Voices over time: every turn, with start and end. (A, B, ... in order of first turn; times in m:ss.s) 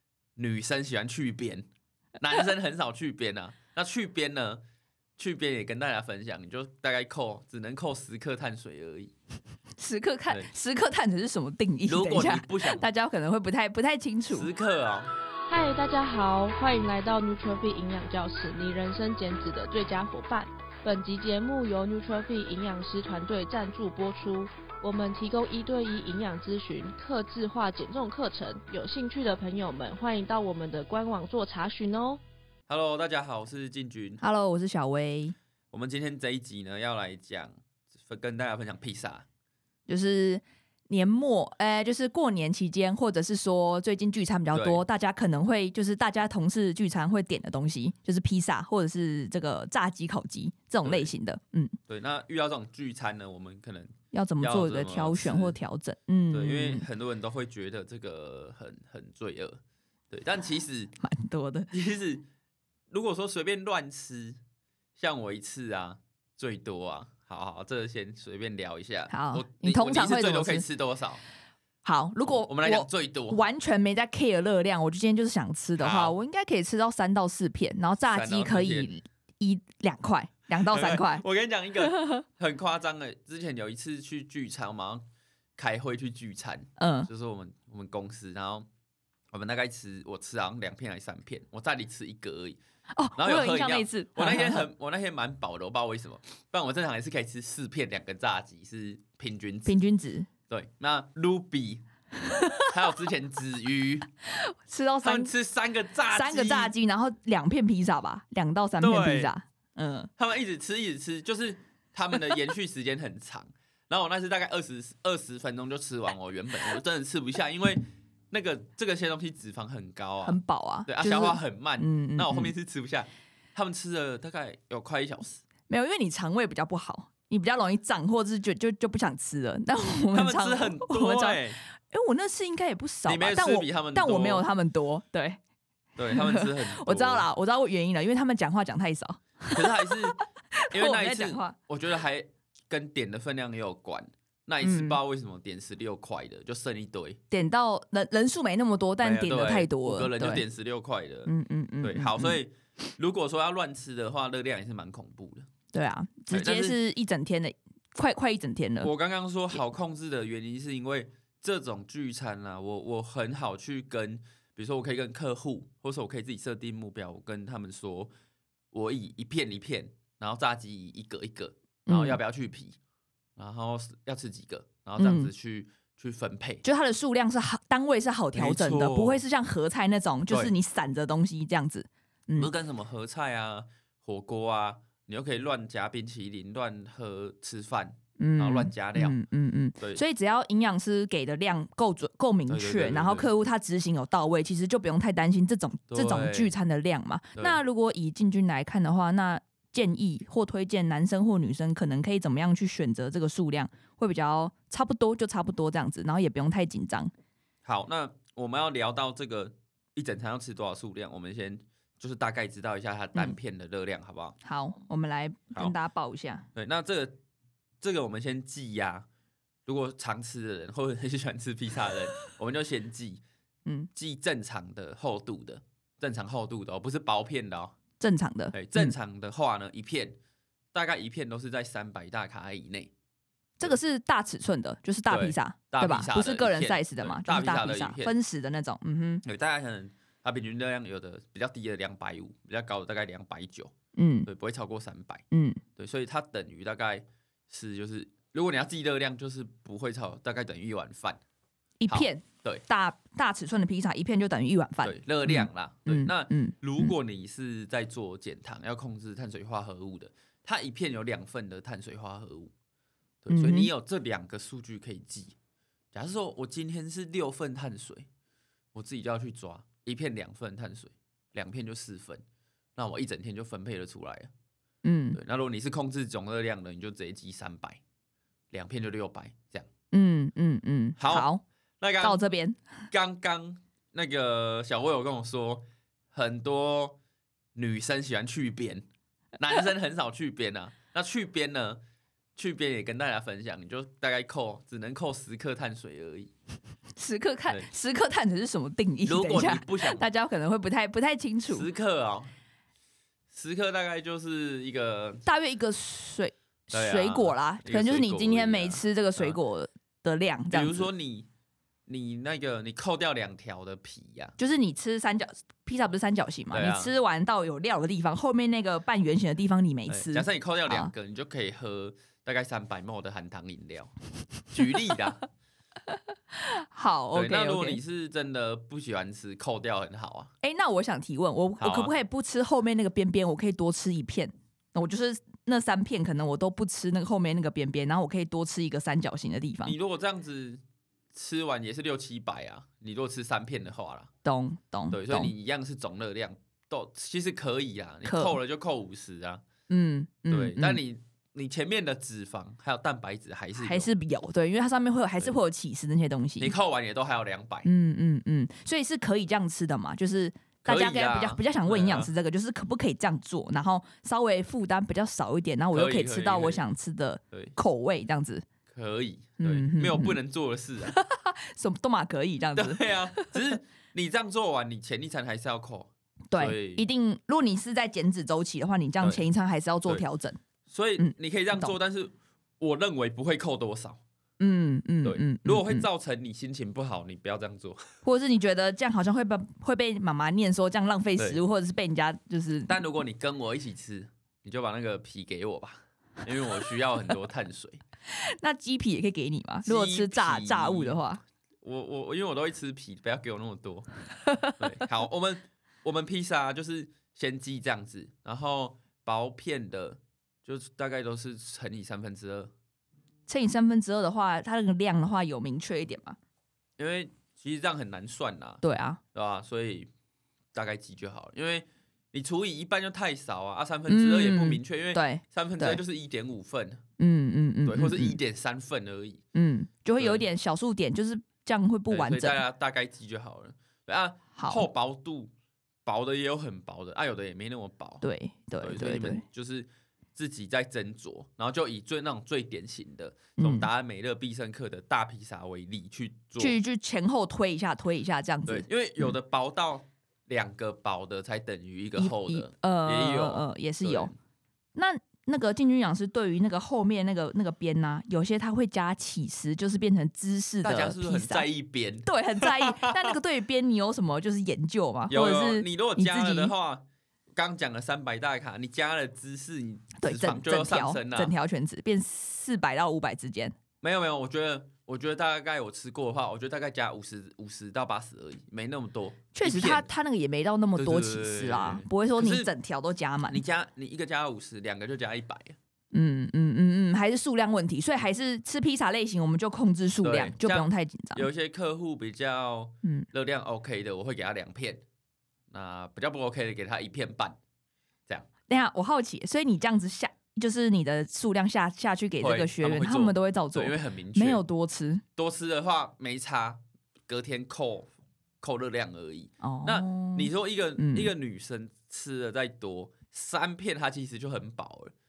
0:00.4-0:01.6 A
0:02.2-0:04.6 A
0:05.2-0:09.1 A
0:09.8-0:14.5 B
0:11.8-0:12.9 A
0:14.3-0:15.1 A
0:15.5-0:32.2 C
0:32.7-0:34.2 A
0:34.2-0:35.4 B
0:35.7-0:39.2 A
0:39.9-0:51.8 B
0:44.5-0:44.8 A
0:50.8-0:51.1 A
0:51.9-0:55.6 A
0:54.1-0:56.8 B
0:56.3-0:59.6 A
1:00.1-1:00.9 A
1:01.0-1:01.7 B
1:01.7-1:02.3 A
1:02.9-1:04.4 A
1:05.0-1:11.2 A
1:09.1-1:10.6 B
1:11.8-1:21.2 B
1:12.2-1:13.4 A
1:15.8-1:16.1 A
1:18.0-1:18.9 A
1:20.6-1:25.0 A
1:21.8-1:22.1 B
1:25.6-1:28.7 A
1:26.8-1:27.1 B
1:29.3-1:32.6 A
1:32.9-1:34.7 B
1:33.2-1:39.7 A
1:39.6-1:40.3 B
1:40.5-1:41.8 A
1:42.2-1:42.7 B
1:42.7-1:44.1 A
1:44.3-1:45.3 B
1:45.0-1:46.7 A
1:46.1-1:50.1 B
1:48.8-1:49.3 A
1:50.2-2:05.4 A
2:00.2-2:02.5 B
2:05.7-2:15.4 B
2:10.1-2:11.6 A
2:13.0-2:14.5 A
2:16.0-2:17.3 A
2:16.1-2:21.6 B
2:19.5-2:20.2 A
2:20.7-2:27.2 A
2:24.6-2:25.0 B
2:27.3-2:30.4 B
2:29.0-2:35.5 A
2:31.2-2:32.4 B
2:35.7-2:38.9 B
2:36.3-2:36.8 A
2:38.8-2:48.1 A
2:48.7-2:52.8 A
2:51.8-2:52.2 B
2:53.4-2:56.6 A
2:55.0-2:55.3 B
2:56.6-3:02.5 B
2:58.3-2:59.2 A
3:02.4-3:09.2 A
3:08.2-3:27.1 B
3:12.5-3:13.3 A
3:15.9-3:16.5 A
3:27.6-3:34.4 A
3:34.4-3:36.5 B
3:36.5-3:37.2 A
3:37.8-3:39.1 A
3:39.6-3:43.2 A
3:43.9-3:47.7 A
3:48.0-3:48.9 B
3:48.5-3:50.2 A
3:50.7-3:52.9 A
3:53.6-3:59.2 B
3:55.1-3:58.1 A
3:59.2-4:03.7 A
4:04.0-4:04.3 B
4:04.2-4:05.2 A
4:05.3-4:05.6 B
4:05.8-4:11.2 A
4:11.8-4:16.9 B
4:11.9-4:12.6 A
4:14.8-4:22.5 A
4:23.2-4:25.3 A
4:23.3-4:23.7 B
4:25.9-4:28.1 A
4:28.7-4:32.2 A
4:32.8-4:34.3 A
4:34.8-4:35.2 B
4:35.1-4:37.8 A
4:38.5-4:39.7 A
4:39.9-4:41.4 B
4:41.0-4:41.3 A
4:41.8-4:42.3 A
4:42.0-4:42.6 B
4:42.9-4:47.0 A
4:47.5-4:48.8 A
4:49.4-4:51.8 A
4:52.4-4:56.3 A
4:57.0-5:01.7 B
4:59.0-5:00.1 A
5:01.5-5:02.3 A
5:03.3-5:05.2 A
5:05.2-5:10.9 B
5:06.7-5:09.4 A
5:10.5-5:11.3 A
5:11.9-5:14.4 A
5:14.4-5:20.9 B
5:16.5-5:16.9 A
5:19.9-5:23.9 A
5:24.5-5:25.2 A
5:26.3-5:27.8 B
5:27.1-5:30.3 A
5:30.4-5:39.7 B
5:31.6-5:31.9 A
5:39.6-5:40.6 A
5:41.1-5:44.1 A
5:44.2-5:45.3 B
5:44.9-5:49.4 A
5:48.0-5:48.4 B
5:49.7-5:50.8 B
5:50.3-5:53.9 A
5:53.6-5:56.5 B
5:56.4-5:57.7 A
5:57.6-6:08.4 B
6:00.6-6:02.1 A
6:05.7-6:06.6 A
6:08.7-6:11.0 A
6:09.4-6:10.2 B
6:10.8-6:13.4 B
6:12.5-6:16.8 A
6:16.3-6:20.4 B
6:20.7-6:24.0 A
6:21.0-6:21.7 B
6:24.4-6:25.9 B
6:25.0-6:27.9 A
6:28.0-6:32.8 B
6:32.7-6:37.8 A
6:38.1-6:41.2 B
6:39.6-6:41.0 A
6:41.6-6:43.9 A
6:44.5-6:52.5 A
6:53.3-6:56.2 B
6:56.8-6:58.6 A
6:58.6-6:59.0 B
6:59.1-6:59.9 A
7:00.5-7:06.8 A
7:03.9-7:05.8 B
7:07.0-7:08.2 B
7:07.6-7:09.2 A
7:09.3-7:12.4 B
7:10.0-7:10.2 A
7:11.9-7:15.3 A
7:14.4-7:14.7 B
7:15.8-7:18.0 A
7:18.0-7:19.2 B
7:18.6-7:26.6 A
7:23.4-7:23.7 B
7:26.4-7:29.1 B
7:28.4-7:34.2 A
7:32.0-7:34.1 B
7:34.7-7:41.5 B
7:40.6-7:43.1 A
7:42.0-7:46.5 B
7:45.1-7:46.8 A
7:47.3-7:51.3 A
7:50.0-7:53.5 B
7:53.8-7:59.9 A
7:59.3-8:03.4 B
8:00.7-8:02.5 A
8:03.3-8:05.6 A
8:05.9-8:11.3 B
8:10.0-8:14.8 A
8:15.5-8:17.4 A
8:18.5-8:25.0 B
8:22.2-8:24.4 A
8:25.2-8:34.9 A
8:29.4-8:31.1 B